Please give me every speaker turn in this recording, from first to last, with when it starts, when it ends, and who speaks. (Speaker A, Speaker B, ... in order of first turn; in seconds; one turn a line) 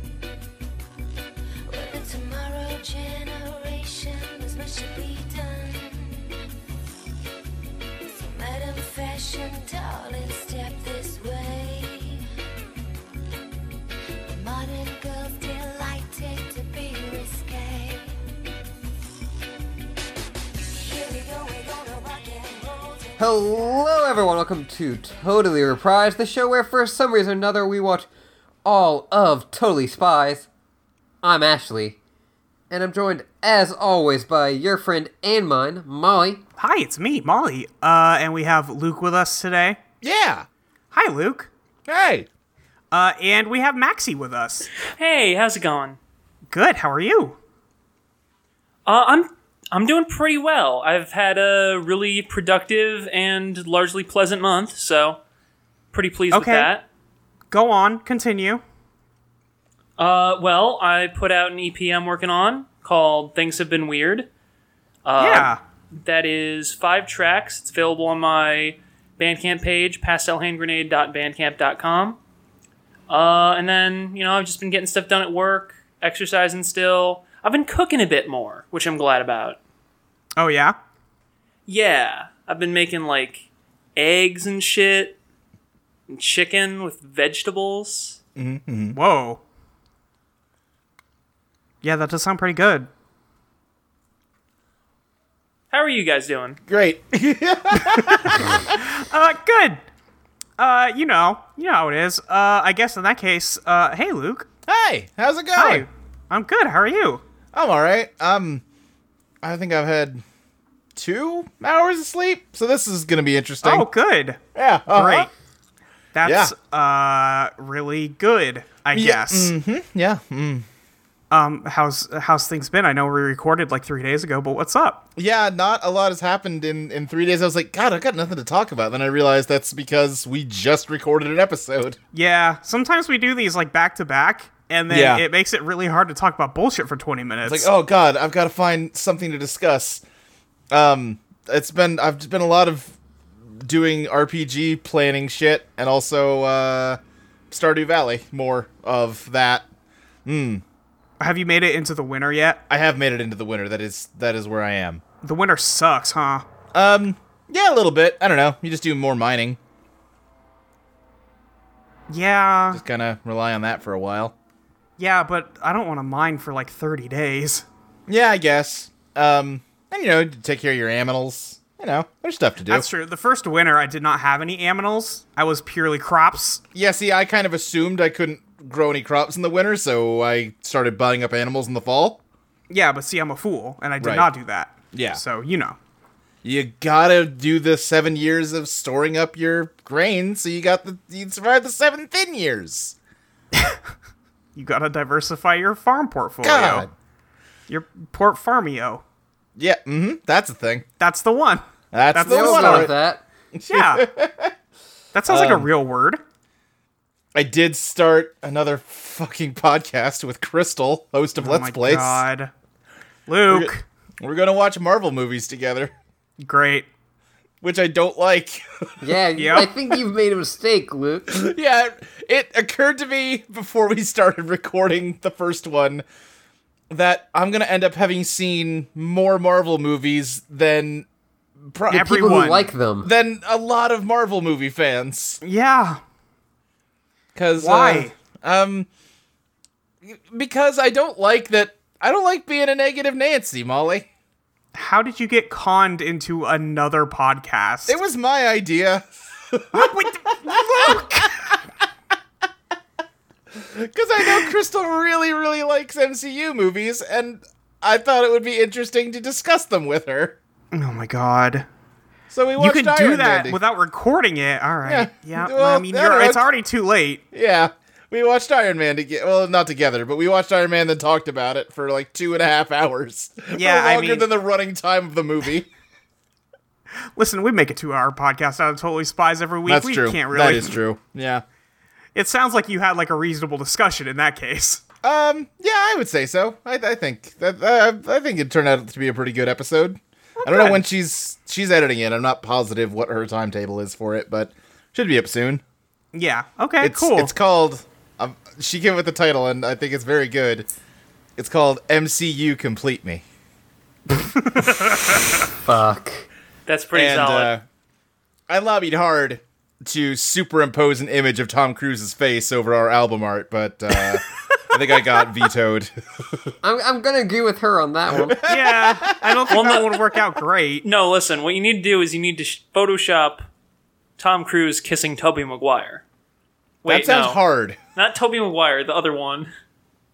Speaker A: 1.7-6.3
Speaker A: 8.1-12.2
Speaker A: 14.3-18.2
Speaker A: 20.6-23.2
Speaker B: 23.2-28.1
Speaker B: 28.6-30.5
Speaker B: 31.2-32.0
Speaker B: 32.7-36.4
Speaker C: 36.6-39.8
Speaker D: 40.0-40.5
Speaker C: 40.9-41.5
Speaker D: 41.9-42.3
Speaker C: 42.9-44.7
Speaker E: 45.0-46.0
Speaker C: 46.5-47.4
Speaker E: 48.9-55.2
Speaker E: 55.9-56.8
Speaker C: 56.3-56.7
Speaker C: 57.5-58.6
Speaker E: 60.0-64.3
Speaker E: 65.0-72.2
Speaker C: 65.2-65.6
Speaker E: 73.1-79.6
Speaker C: 80.4-80.8
Speaker E: 81.7-83.4
Speaker E: 84.0-85.2
Speaker E: 86.1-88.2
Speaker D: 88.3-89.0
Speaker C: 88.9-89.4
Speaker C: 91.8-92.9
Speaker E: 95.7-96.6
Speaker D: 96.7-98.8
Speaker C: 97.9-99.8
Speaker C: 100.6-104.5
Speaker D: 104.7-105.8
Speaker C: 105.5-107.2
Speaker D: 107.5-108.6
Speaker D: 109.4-110.2
Speaker D: 111.0-113.9
Speaker C: 113.6-115.3
Speaker D: 114.5-115.3
Speaker C: 116.1-119.5
Speaker D: 116.2-116.5
Speaker D: 118.9-120.7
Speaker C: 121.3-125.0
Speaker D: 125.2-132.0
Speaker C: 132.1-137.7
Speaker D: 134.9-135.2
Speaker D: 137.4-140.0
Speaker D: 140.7-142.9
Speaker D: 143.6-147.0
Speaker D: 147.5-149.7
Speaker D: 150.2-150.6
Speaker C: 151.2-152.6
Speaker D: 152.7-155.0
Speaker C: 155.2-156.4
Speaker D: 156.7-159.6
Speaker C: 162.1-162.8
Speaker D: 162.7-164.3
Speaker C: 165.0-167.7
Speaker D: 168.1-172.8
Speaker C: 172.7-176.6
Speaker D: 176.7-182.2
Speaker C: 182.7-185.8
Speaker D: 184.0-184.3
Speaker D: 184.9-185.2
Speaker D: 186.4-192.9
Speaker C: 193.5-193.8
Speaker C: 194.6-196.8
Speaker D: 196.4-196.9
Speaker C: 197.7-199.0
Speaker D: 199.6-200.8
Speaker C: 201.0-202.9
Speaker D: 201.9-202.9
Speaker B: 202.2-203.2
Speaker D: 203.6-204.5
Speaker C: 203.7-204.1
Speaker C: 205.1-206.2
Speaker D: 205.3-205.7
Speaker D: 207.3-212.2
Speaker C: 211.4-212.5
Speaker C: 213.3-213.8
Speaker D: 214.2-215.9
Speaker C: 216.4-216.9
Speaker D: 217.6-218.6
Speaker B: 219.0-221.4
Speaker C: 219.4-219.7
Speaker D: 221.3-226.0
Speaker D: 226.9-231.1
Speaker D: 231.6-232.1
Speaker C: 231.9-232.7
Speaker B: 231.9-233.1
Speaker D: 233.0-235.4
Speaker C: 235.4-236.0
Speaker D: 237.3-238.9
Speaker C: 237.6-238.1
Speaker D: 240.0-244.1
Speaker C: 244.7-248.0
Speaker D: 247.9-251.6
Speaker C: 249.7-251.3
Speaker D: 253.5-260.3
Speaker C: 254.2-254.5
Speaker C: 260.7-261.7
Speaker D: 262.3-263.6
Speaker C: 262.6-267.2
Speaker D: 264.8-266.4
Speaker D: 267.3-275.7
Speaker C: 273.5-274.3
Speaker C: 277.1-280.8
Speaker D: 279.7-281.4
Speaker C: 282.1-284.8
Speaker D: 285.0-295.6
Speaker C: 290.4-290.8
Speaker C: 296.1-297.3
Speaker D: 296.8-300.7
Speaker D: 301.4-303.2
Speaker C: 304.1-305.2
Speaker B: 305.6-306.3
Speaker E: 306.7-307.5
Speaker D: 306.9-307.6
Speaker D: 308.5-315.9
Speaker B: 316.6-318.4
Speaker D: 318.1-319.6
Speaker C: 318.5-320.8
Speaker E: 319.5-319.9
Speaker E: 320.8-323.4
Speaker E: 324.2-326.0
Speaker E: 326.8-327.4
Speaker D: 326.9-327.8
Speaker E: 327.9-329.5